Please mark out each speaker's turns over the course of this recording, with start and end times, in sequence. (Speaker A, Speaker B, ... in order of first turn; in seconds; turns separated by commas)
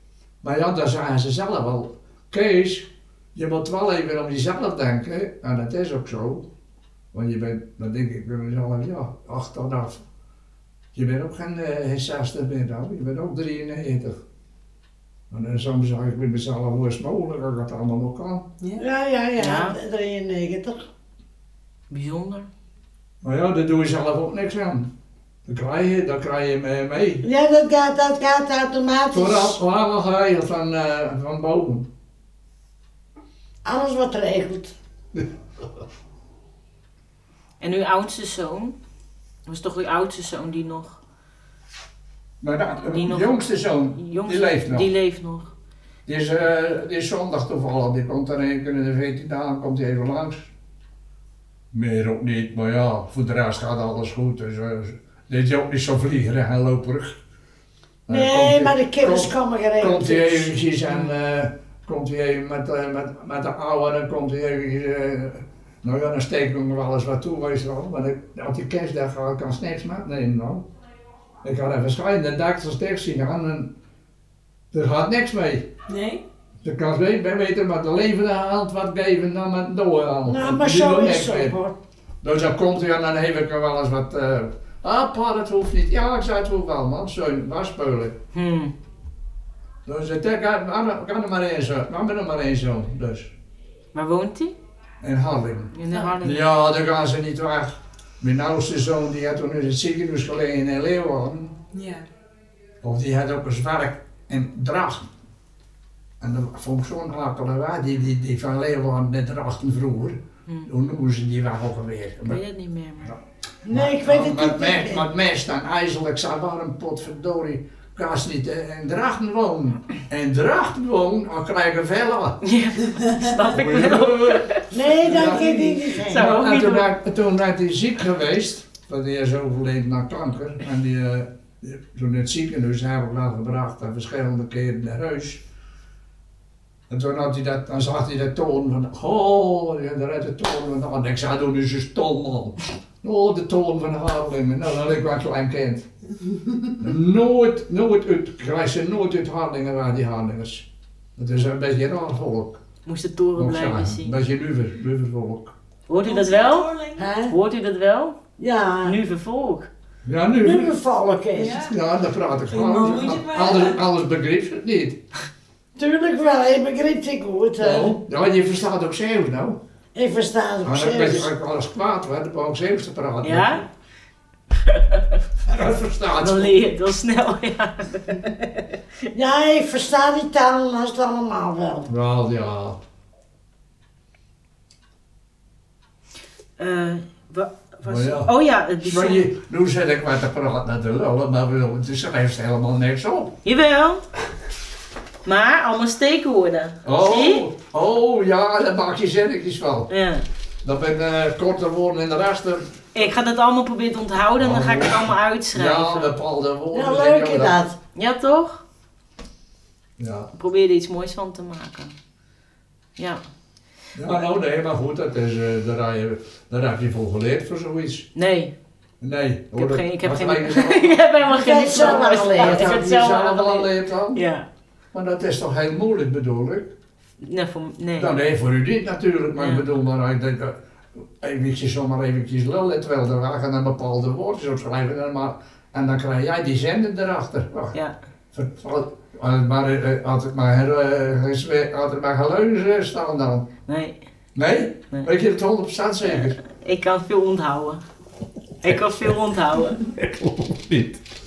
Speaker A: 0.4-6.5, Speaker A: 7.1-10.0, Speaker A: 10.9-14.2, Speaker A: 15.3-18.4, Speaker B: 18.8-20.8, Speaker C: 19.4-19.8, Speaker C: 21.9-22.5, Speaker A: 23.2-24.9, Speaker A: 25.4-27.2, Speaker B: 27.2-29.6, Speaker A: 29.1-31.9, Speaker B: 33.6-34.7, Speaker C: 37.6-38.8, Speaker C: 39.5-41.0, Speaker A: 42.4-44.9, Speaker C: 42.8-43.4, Speaker C: 43.9-45.5, Speaker A: 46.0-50.5, Speaker A: 51.7-57.1, Speaker A: 58.1-70.6, Speaker B: 58.1-60.5, Speaker A: 71.4-73.7, Speaker A: 74.7-75.7, Speaker D: 75.9-76.2, Speaker A: 76.6-81.5, Speaker B: 80.2-81.7, Speaker A: 82.2-88.2, Speaker C: 88.3-88.7, Speaker A: 89.8-93.3, Speaker C: 93.9-94.5, Speaker A: 95.0-101.5, Speaker C: 95.7-96.4, Speaker D: 101.7-102.0, Speaker A: 102.8-105.1, Speaker A: 106.2-112.4, Speaker C: 112.3-113.1, Speaker A: 113.1-122.4, Speaker B: 113.6-115.0, Speaker C: 122.4-124.6, Speaker A: 123.5-135.4, Speaker B: 124.7-126.4, Speaker D: 125.2-125.6, Speaker C: 126.0-126.9, Speaker A: 136.9-145.8, Speaker A: 146.8-152.6, Speaker C: 152.8-154.2, Speaker A: 153.4-155.5, Speaker C: 155.9-156.7, Speaker D: 156.0-157.1, Speaker B: 157.0-157.3, Speaker C: 157.3-158.2, Speaker B: 158.4-159.0, Speaker C: 158.8-159.7, Speaker A: 160.0-160.8, Speaker B: 160.4-161.6, Speaker D: 161.3-161.7, Speaker A: 161.6-165.0, Speaker D: 162.5-163.8, Speaker B: 165.8-168.0, Speaker A: 167.6-169.6, Speaker B: 169.9-171.3, Speaker A: 170.6-173.6, Speaker C: 173.2-173.7, Speaker C: 174.7-175.1, Speaker A: 175.4-176.5, Speaker C: 176.2-178.7, Speaker B: 179.1-181.9, Speaker A: 181.9-182.8, Speaker C: 186.6-189.2, Speaker A: 187.8-193.3, Speaker C: 193.4-194.0, Speaker C: 195.2-197.4, Speaker A: 196.8-199.9, Speaker C: 199.9-200.2, Speaker A: 200.6-203.1, Speaker C: 202.9-206.1, Speaker A: 204.4-207.5, Speaker B: 206.7-207.8, Speaker C: 207.9-208.6, Speaker A: 210.0-210.3, Speaker C: 210.3-211.9, Speaker C: 213.0-213.2, Speaker A: 213.9-218.1, Speaker C: 218.1-218.5, Speaker A: 219.0-221.0, Speaker C: 219.5-224.4, Speaker B: 221.3-222.8, Speaker A: 221.7-224.2, Speaker A: 224.9-226.7, Speaker C: 227.2-228.2, Speaker A: 227.9-230.6, Speaker C: 229.4-229.6, Speaker A: 231.2-237.7, Speaker A: 238.3-243.5, Speaker C: 243.7-244.0, Speaker A: 244.3-246.4, Speaker C: 246.0-247.8, Speaker C: 248.6-249.8, Speaker A: 249.8-251.0